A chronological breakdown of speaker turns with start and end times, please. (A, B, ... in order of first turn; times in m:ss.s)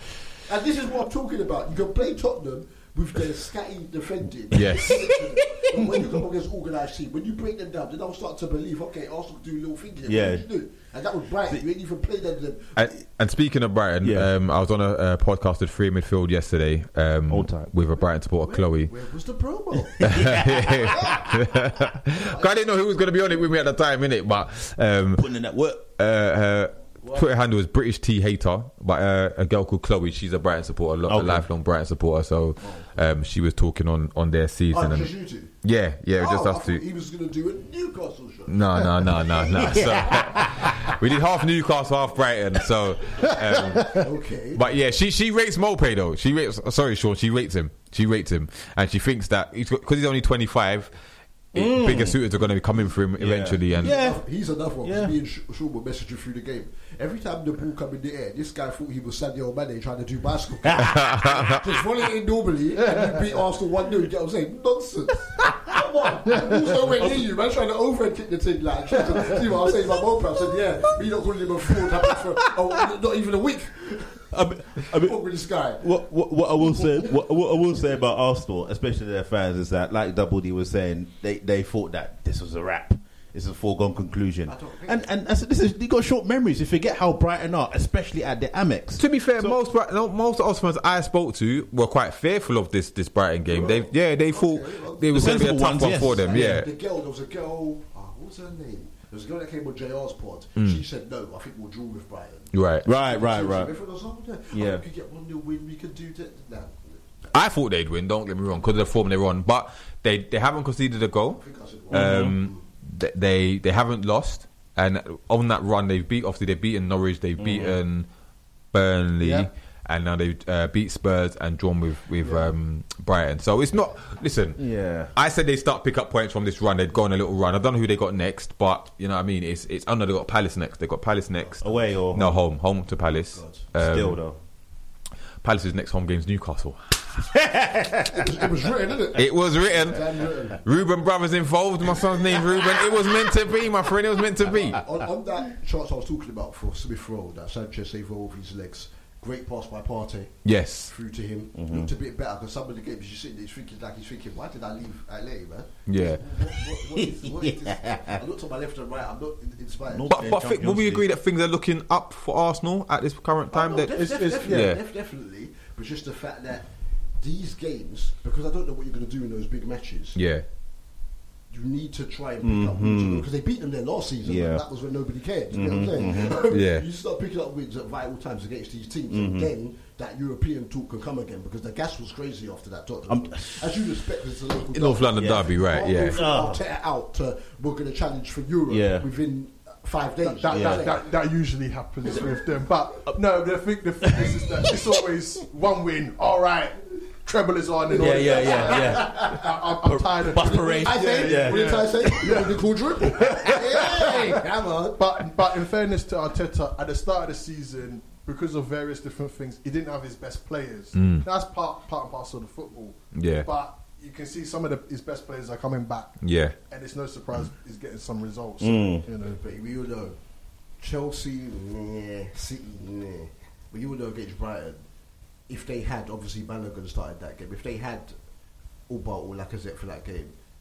0:00.3-0:12.9 A
0:04.5-0:05.0 B
0:04.7-0:05.6 C
0:10.0-0:10.4 C
0:12.8-0:18.9 B
0:14.0-0:14.3 C
0:17.3-0:17.7 C
0:18.4-0:20.2 A
0:19.8-0:21.1 C
0:20.2-0:25.3 B
0:20.9-0:21.6 A
0:25.2-0:25.8 C
0:25.8-0:36.8 B
0:27.0-0:27.3 A
0:31.1-0:31.5 C
0:32.6-0:32.9 A
0:34.7-0:35.5 A
0:36.2-0:39.2 A
0:38.5-0:50.9 B
0:39.5-0:40.7 C
0:43.6-0:44.0 D
0:43.9-0:44.6 A
0:51.5-0:54.0 B
0:51.5-0:52.2 C
0:53.2-0:55.1 C
0:53.8-1:15.9 A
1:00.6-1:01.8 C
1:00.9-1:01.5 B
1:02.9-1:03.3 D
1:06.3-1:06.8 D
1:07.0-1:07.3 C
1:14.3-1:15.2 C
1:15.8-1:29.6 C
1:24.5-1:25.0 A
1:29.0-1:36.7 B
1:33.5-1:47.3 A
1:35.1-1:36.6 C
1:40.6-1:40.8 B
1:42.5-1:42.8 B
1:42.8-1:43.7 C
1:44.5-1:44.8 C
1:47.3-1:58.1 B
1:51.4-1:52.6 A
1:51.9-1:52.4 C
1:57.4-1:57.8 C
1:58.7-2:14.5 B
2:02.2-2:02.5 A
2:04.6-2:05.1 C
2:11.6-2:12.4 C
2:13.3-2:13.7 A
2:13.7-2:14.4 C
2:15.4-2:17.3 B
2:17.3-2:18.3 C
2:18.1-2:20.8 A
2:19.1-2:24.8 B
2:19.9-2:20.1 C
2:24.4-2:40.4 A
2:30.4-2:30.9 B
2:31.6-2:31.9 C
2:35.9-2:36.2 B
2:36.4-2:38.2 C
2:39.8-2:41.0 C
2:40.1-2:44.8 B
2:43.5-2:50.2 A
2:43.9-2:44.7 D
2:50.1-2:50.4 B
2:51.5-3:11.1 A
2:52.4-2:53.3 C
2:54.2-2:54.6 C
2:55.5-2:56.4 C
2:56.5-2:56.8 B
2:59.1-2:59.5 C
3:03.1-3:04.0 C
3:04.7-3:06.2 B
3:05.1-3:05.4 C
3:06.1-3:06.6 C
3:08.7-3:09.1 C
3:10.2-3:22.6 D
3:10.5-3:10.8 C
3:12.0-3:12.4 A
3:14.0-3:14.7 C
3:17.9-3:19.4 A
3:18.0-3:22.1 C
3:20.3-3:25.0 A
3:23.2-3:24.2 D
3:23.4-3:24.3 C
3:25.0-3:39.4 D
3:30.9-3:31.2 B
3:33.1-3:33.5 B
3:36.2-3:36.5 B
3:38.6-3:39.0 C
3:39.2-3:44.9 A
3:45.5-3:48.2 A
3:48.9-3:50.4 A